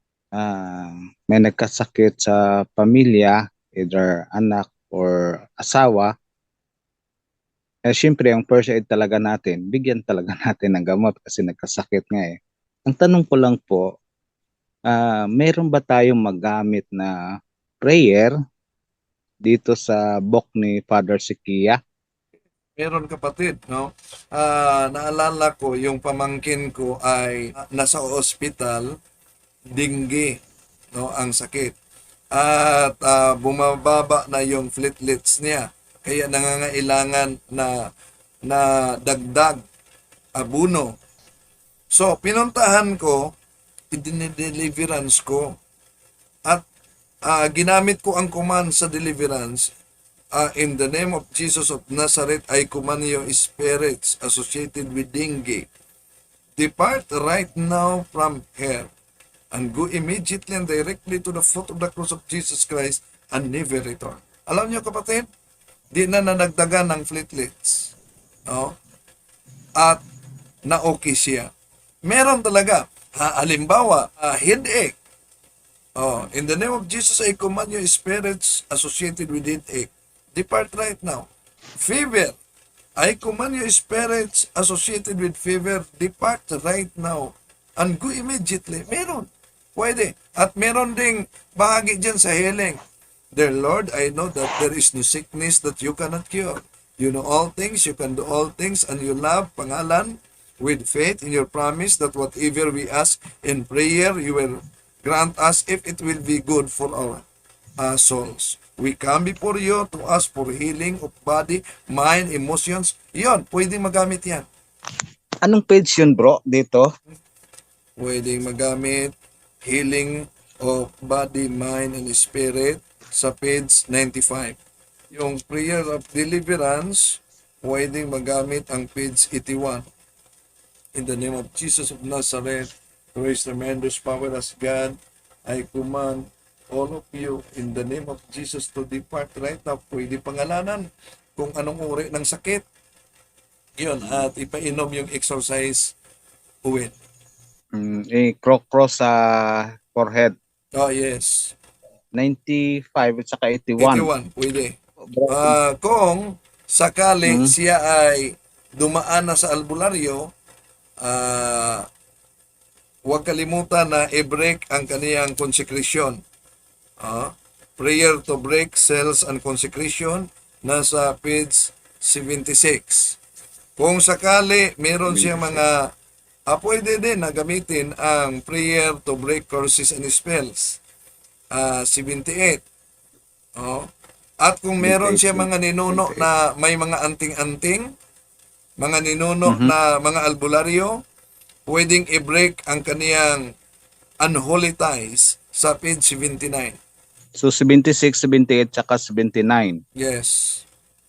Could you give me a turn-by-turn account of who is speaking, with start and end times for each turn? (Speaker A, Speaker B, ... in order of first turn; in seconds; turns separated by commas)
Speaker A: 0.4-6.1, Speaker A: 7.9-12.4, Speaker A: 12.9-13.9, Speaker A: 14.9-17.1, Speaker A: 17.8-18.3, Speaker A: 19.4-21.8, Speaker B: 22.8-28.9, Speaker B: 29.7-30.4, Speaker B: 30.9-31.8, Speaker B: 32.3-37.9, Speaker B: 38.4-39.6, Speaker B: 40.4-41.0, Speaker B: 41.9-43.3, Speaker B: 43.9-45.6, Speaker B: 47.2-49.7, Speaker B: 50.4-55.7, Speaker B: 56.6-58.9, Speaker B: 59.5-65.3, Speaker B: 65.9-67.9, Speaker B: 68.5-68.8, Speaker B: 70.7-71.5, Speaker B: 72.1-75.0, Speaker B: 76.0-82.4, Speaker B: 83.0-92.8, Speaker B: 93.3-107.2, Speaker B: 107.8-114.5, Speaker A: 115.4-116.9, Speaker B: 118.0-124.6, Speaker B: 125.1-129.9, Speaker B: 130.9-142.6, Speaker B: 143.8-145.9, Speaker B: 146.6-146.9, Speaker A: 147.8-150.3, Speaker B: 150.7-151.5, Speaker A: 152.2-154.1, Speaker B: 153.8-154.8, Speaker A: 155.1-155.6, Speaker B: 155.3-160.3, Speaker A: 157.2-157.5, Speaker B: 161.0-161.9, Speaker B: 163.1-166.2, Speaker B: 167.0-173.2, Speaker B: 173.8-175.9, Speaker A: 175.1-175.6, Speaker B: 176.5-180.8, Speaker B: 181.5-182.6, Speaker B: 183.6-183.9, Speaker B: 184.4-187.9, Speaker A: 184.8-186.3, Speaker B: 188.8-191.0, Speaker A: 189.5-189.7, Speaker B: 191.7-193.5, Speaker B: 194.2-196.8, Speaker A: 197.4-199.8, Speaker B: 200.0-200.6